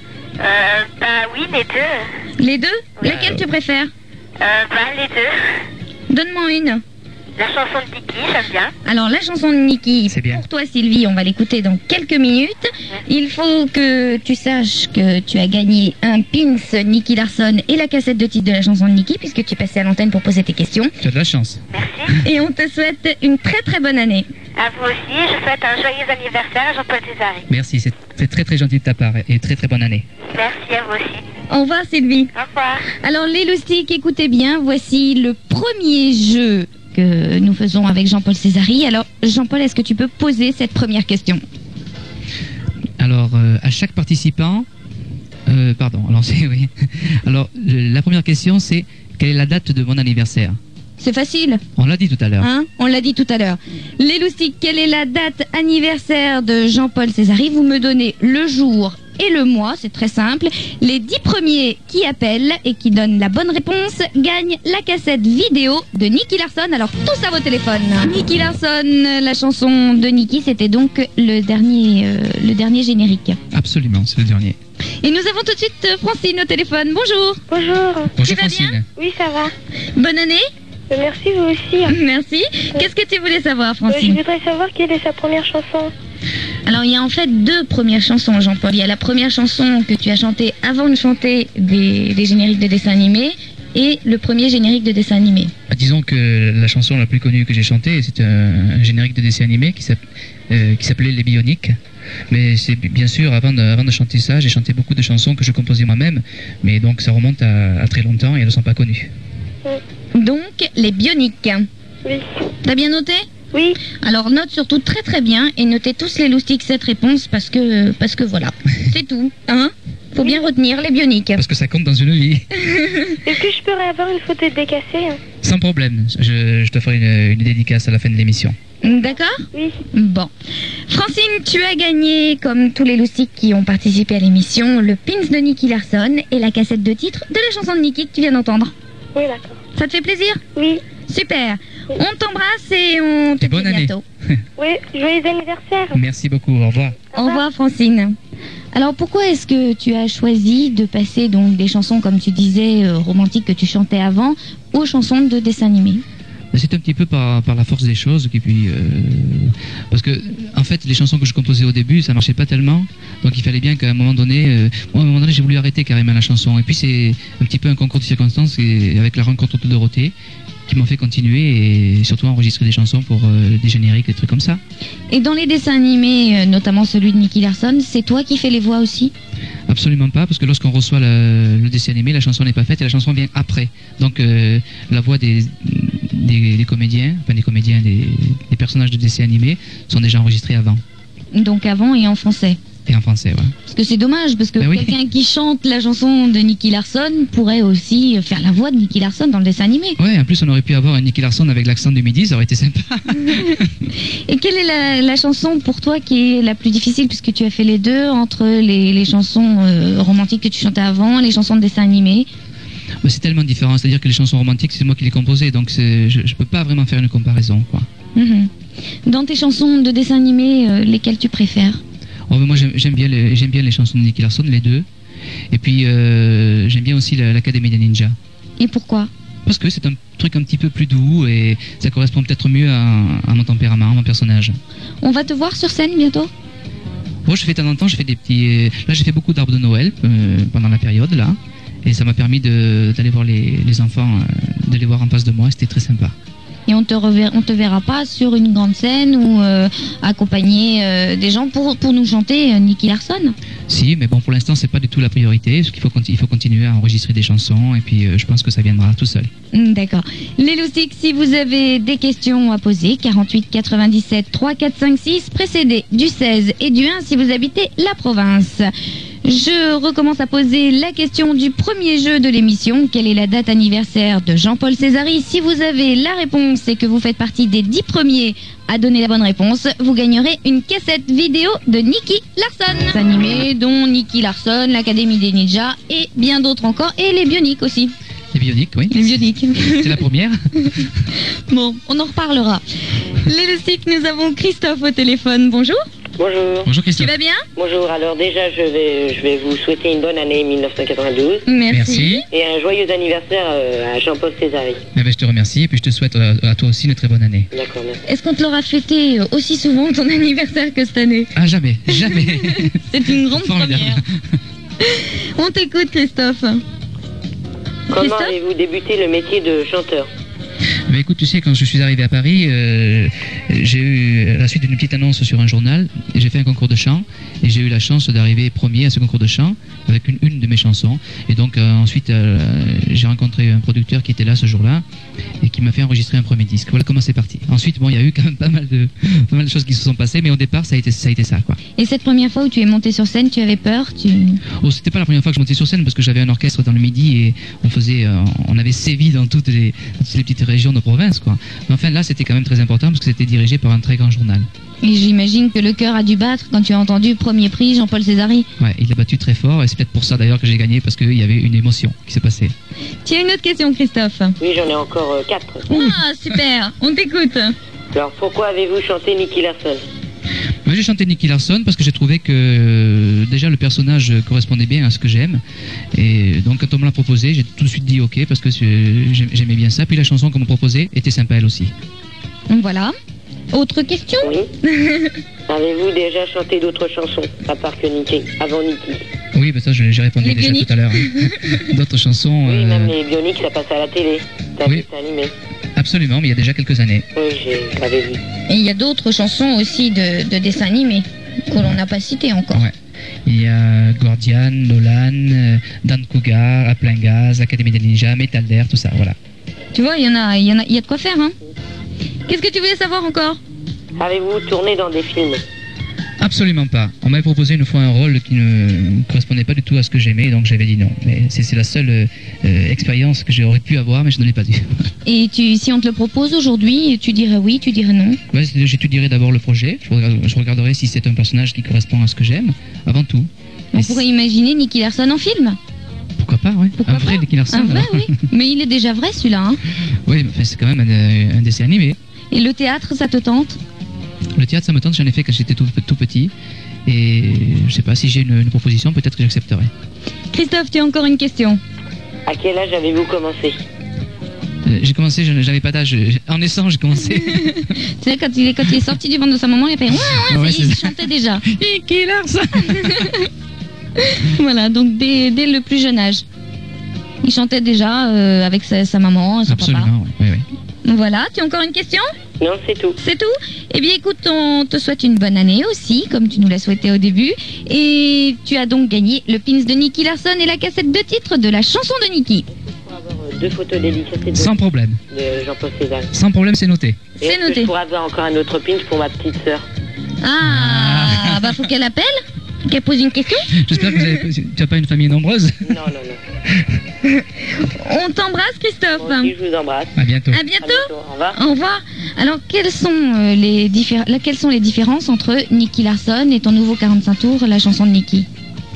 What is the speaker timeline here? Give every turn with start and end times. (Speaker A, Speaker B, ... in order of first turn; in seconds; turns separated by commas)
Speaker A: 0.4-2.1, Speaker B: 2.4-3.9, Speaker C: 3.0-3.4, Speaker A: 4.4-5.4, Speaker B: 6.1-6.8, Speaker A: 7.4-8.7, Speaker B: 8.8-20.9, Speaker C: 10.1-10.4, Speaker C: 21.0-21.6, Speaker A: 21.7-22.2, Speaker B: 22.2-24.3, Speaker A: 24.6-27.5, Speaker C: 27.5-30.1, Speaker A: 30.3-31.2, Speaker B: 31.5-32.3, Speaker A: 32.4-32.9, Speaker B: 32.9-41.4, Speaker C: 43.0-44.7, Speaker C: 45.5-50.6, Speaker B: 51.0-51.6, Speaker C: 51.8-52.5, Speaker B: 52.4-73.4, Speaker C: 73.5-74.6, Speaker B: 75.0-77.4, Speaker D: 77.5-78.2, Speaker C: 78.2-78.9, Speaker B: 78.2-78.8, Speaker D: 79.0-79.5, Speaker B: 80.0-80.5, Speaker D: 80.9-82.0, Speaker B: 81.9-84.2, Speaker D: 83.9-85.9, Speaker B: 86.7-95.5, Speaker C: 95.7-100.0, Speaker C: 100.5-101.8, Speaker C: 102.3-109.1, Speaker B: 110.1-111.7, Speaker D: 112.0-112.3, Speaker B: 112.6-113.3, Speaker D: 113.5-113.8, Speaker B: 113.9-121.4, Speaker C: 121.4-122.6, Speaker B: 122.6-123.2, Speaker D: 123.2-125.2, Speaker C: 125.4-128.6, Speaker B: 128.8-130.3, Speaker D: 129.5-129.8, Speaker B: 130.9-138.7, Speaker D: 139.2-139.6, Speaker B: 139.8-140.4, Speaker D: 140.6-140.8, Speaker B: 141.1-144.0, Speaker C: 143.4-144.4, Speaker D: 144.6-146.0, Speaker C: 145.9-147.0, Speaker D: 147.1-147.4, Speaker B: 147.1-148.2, Speaker B: 148.7-156.0, Speaker C: 156.5-170.1, Speaker C: 170.7-174.6, Speaker B: 175.1-179.1, Speaker C: 179.7-190.8, Speaker B: 191.3-192.6, Speaker C: 192.9-193.6, Speaker B: 193.7-200.0, Speaker C: 194.6-194.9, Speaker C: 200.0-203.7, Speaker B: 203.3-212.3, Speaker C: 213.0-217.9, Speaker B: 218.2-218.5, Speaker B: 219.1-221.8, Speaker C: 222.3-224.9, Speaker C: 225.5-228.2, Speaker B: 228.6-229.1, Speaker C: 229.5-234.6, Speaker B: 235.0-236.3, Speaker C: 237.2-246.2, Speaker B: 246.7-253.4, Speaker C: 253.7-259.3, Speaker B: 259.5-268.7, Speaker B: 269.2-287.9, Speaker C: 288.3-290.9, Speaker B: 288.9-290.0, Speaker B: 291.4-295.8, Speaker E: 296.2-296.7, Speaker C: 296.6-297.1, Speaker B: 297.0-297.4, Speaker E: 297.6-301.4, Speaker B: 301.5-302.2, Speaker C: 301.7-302.2, Speaker E: 302.3-304.8, Speaker C: 304.9-307.5, Speaker E: 307.5-308.0, Speaker B: 308.1-311.3, Speaker C: 311.4-314.2, Speaker B: 311.9-314.0, Speaker B: 314.8-316.6, Speaker E: 317.9-320.1, Speaker B: 318.0-318.4, Speaker C: 320.9-334.8, Speaker C: 335.4-341.6, Speaker B: 341.8-344.4, Speaker C: 344.6-354.5, Speaker B: 354.8-358.5, Speaker C: 358.6-362.5, Speaker B: 363.1-364.4, Speaker E: 364.4-365.7, Speaker B: 365.7-367.6, Speaker E: 367.9-369.8, Speaker C: 370.6-375.4, Speaker C: 375.9-381.7, Speaker B: 382.5-382.9, Speaker B: 383.5-385.2, Speaker E: 384.2-384.5, Speaker E: 385.5-389.1, Speaker C: 389.3-392.9, Speaker B: 390.2-391.6, Speaker E: 392.4-395.3, Speaker C: 395.8-397.1, Speaker E: 397.2-398.2, Speaker B: 398.5-402.6, Speaker C: 403.2-409.2, Speaker B: 409.7-411.4, Speaker B: 412.3-413.4, Speaker E: 414.0-415.4, Speaker C: 416.2-424.9, Speaker B: 425.1-428.2, Speaker C: 428.3-434.0, Speaker B: 433.7-435.6, Speaker C: 436.2-438.2, Speaker B: 436.8-439.6, Speaker C: 439.9-442.0, Speaker B: 442.3-443.6, Speaker C: 444.4-446.3, Speaker C: 446.9-449.7, Speaker B: 450.3-451.6, Speaker E: 452.2-453.6, Speaker C: 454.6-457.7, Speaker B: 457.4-461.4, Speaker C: 459.9-463.2, Speaker B: 462.6-463.3, Speaker B: 464.0-466.2, Speaker B: 467.2-469.9, Speaker C: 469.5-470.5, Speaker B: 470.9-472.1, Speaker E: 472.4-473.0, Speaker B: 473.0-482.5, Speaker E: 482.7-484.5, Speaker C: 484.3-485.0, Speaker E: 485.1-486.1, Speaker C: 486.1-487.0, Speaker E: 487.2-489.6, Speaker B: 487.2-487.7, Speaker B: 490.2-494.1, Speaker C: 490.4-491.6, Speaker C: 493.5-495.8, Speaker E: 495.6-496.2, Speaker B: 497.0-499.3, Speaker E: 499.0-500.0, Speaker C: 500.0-500.4, Speaker B: 500.3-508.3, Speaker E: 500.6-501.4